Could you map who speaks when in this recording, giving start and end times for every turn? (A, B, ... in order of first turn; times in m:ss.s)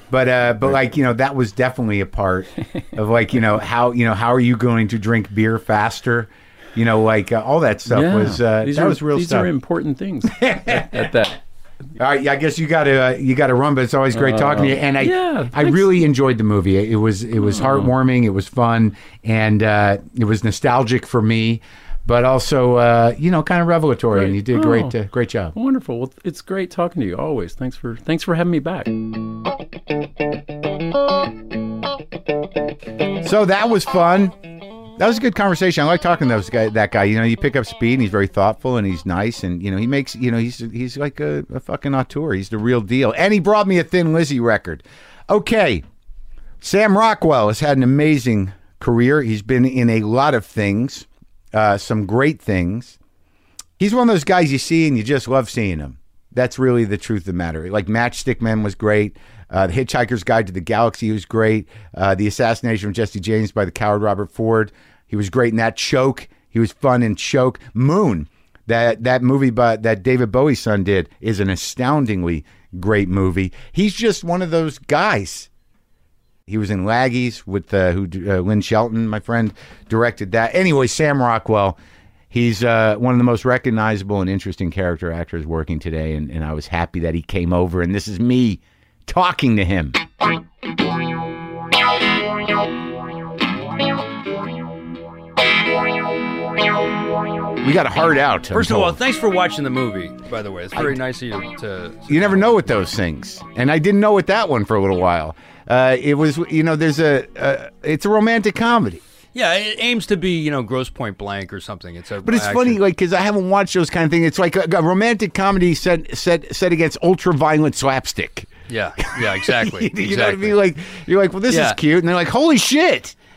0:00.1-0:09.5 A
0:07.9-0:11.4 B
0:10.3-0:11.1 A
0:12.0-0:25.5 A
0:14.1-0:16.0 B
0:17.4-0:17.9 B
0:24.1-0:25.0 B
0:25.5-0:29.0 B
0:33.2-0:34.4 A
0:35.0-0:45.8 A
0:46.6-0:53.0 A
0:53.8-1:15.5 A
1:16.5-1:21.8 A
1:22.3-1:30.0 A
1:37.6-1:39.0 A
1:38.5-1:42.7 C
1:42.1-1:49.0 A
1:49.3-1:52.8 C
1:52.2-1:58.5 A
1:58.7-2:00.6 C
1:59.1-2:03.2 A
2:01.5-2:01.8 C